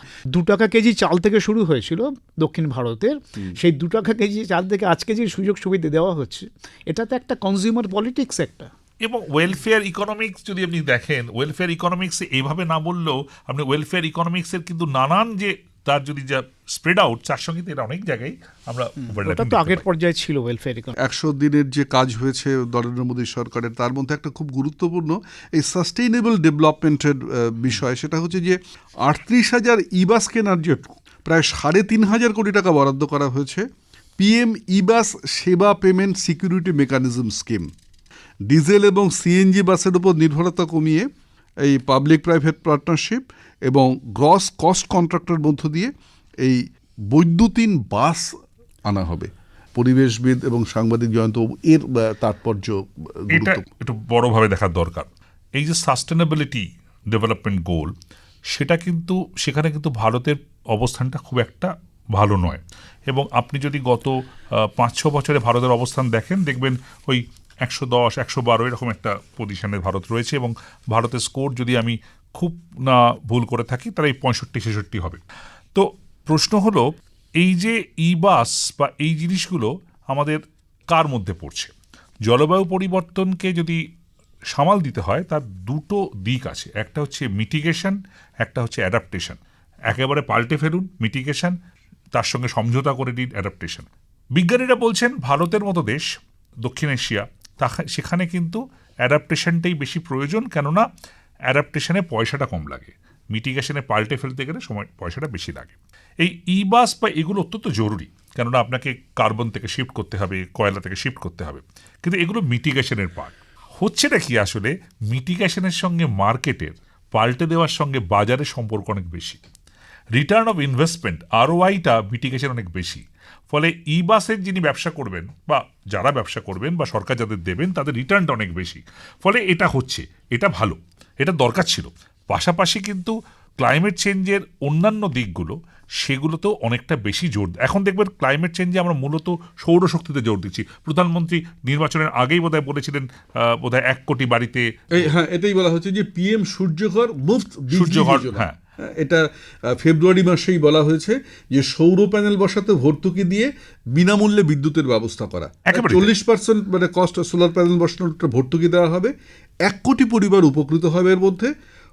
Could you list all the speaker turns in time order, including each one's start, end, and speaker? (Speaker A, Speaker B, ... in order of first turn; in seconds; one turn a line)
Speaker A: 0.3-8.7
Speaker B: 9.0-19.8
Speaker A: 19.0-20.9
Speaker C: 21.0-33.7
Speaker C: 34.2-37.7
Speaker C: 38.5-41.1
Speaker C: 41.6-48.3
Speaker C: 48.9-53.6
Speaker B: 53.3-57.9
Speaker B: 58.5-75.2
Speaker B: 75.7-76.9
Speaker B: 77.4-81.7
Speaker B: 82.2-83.8
Speaker B: 84.5-91.5
Speaker B: 92.1-96.1
Speaker B: 96.6-100.8
Speaker B: 101.5-119.4
Speaker B: 120.2-145.1
Speaker C: 144.9-159.1
Speaker B: 147.7-148.6
Speaker B: 155.7-156.1
Speaker C: 159.7-161.5